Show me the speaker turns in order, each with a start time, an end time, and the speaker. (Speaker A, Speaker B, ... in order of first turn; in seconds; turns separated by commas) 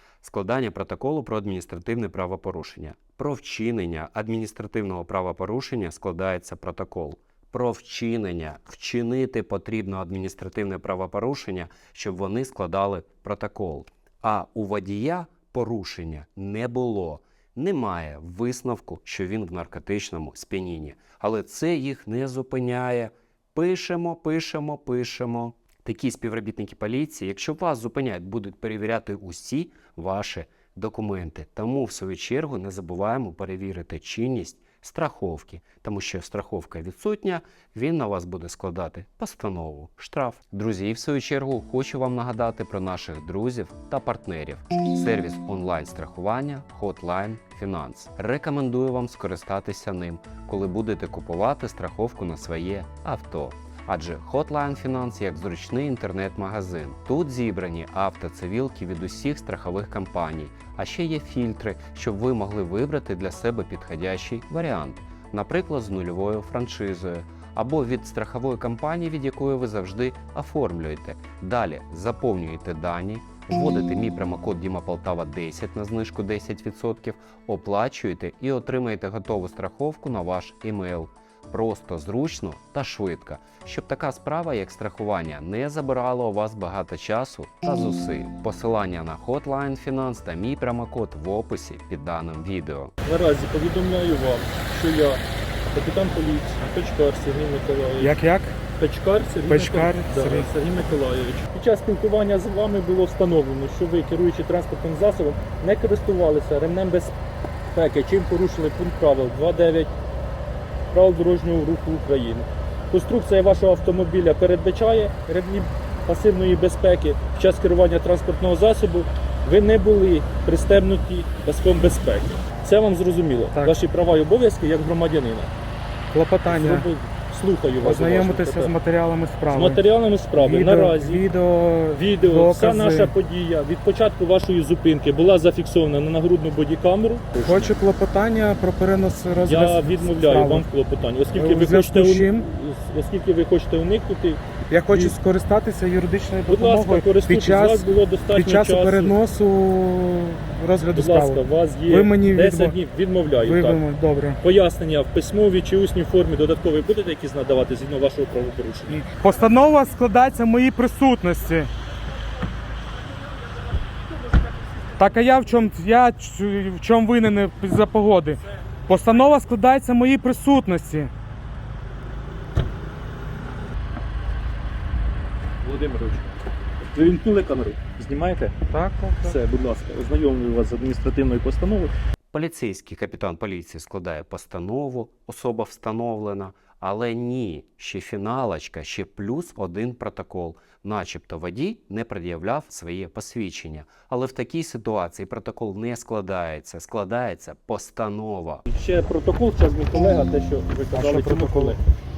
Speaker A: 0.2-92.9, Speaker B: 93.0-95.2, Speaker B: 95.7-98.2, Speaker C: 98.0-98.6, Speaker B: 98.8-107.1, Speaker C: 99.5-100.5, Speaker B: 107.7-109.9, Speaker B: 110.9-125.5, Speaker C: 126.1-126.9, Speaker B: 126.5-128.7, Speaker C: 127.8-129.8, Speaker B: 129.5-131.3, Speaker C: 130.3-133.1, Speaker B: 131.9-137.7, Speaker C: 137.4-140.7, Speaker B: 139.4-145.2, Speaker C: 141.3-142.5, Speaker C: 144.7-152.8, Speaker B: 146.5-149.2, Speaker B: 150.9-153.8, Speaker C: 153.4-154.4, Speaker B: 154.4-159.1, Speaker C: 158.9-161.7, Speaker B: 162.9-165.2, Speaker C: 165.0-171.1, Speaker B: 175.6-178.5, Speaker C: 178.7-179.4, Speaker B: 179.2-181.9, Speaker A: 182.3-198.6, Speaker B: 198.7-201.8, Speaker C: 200.9-201.8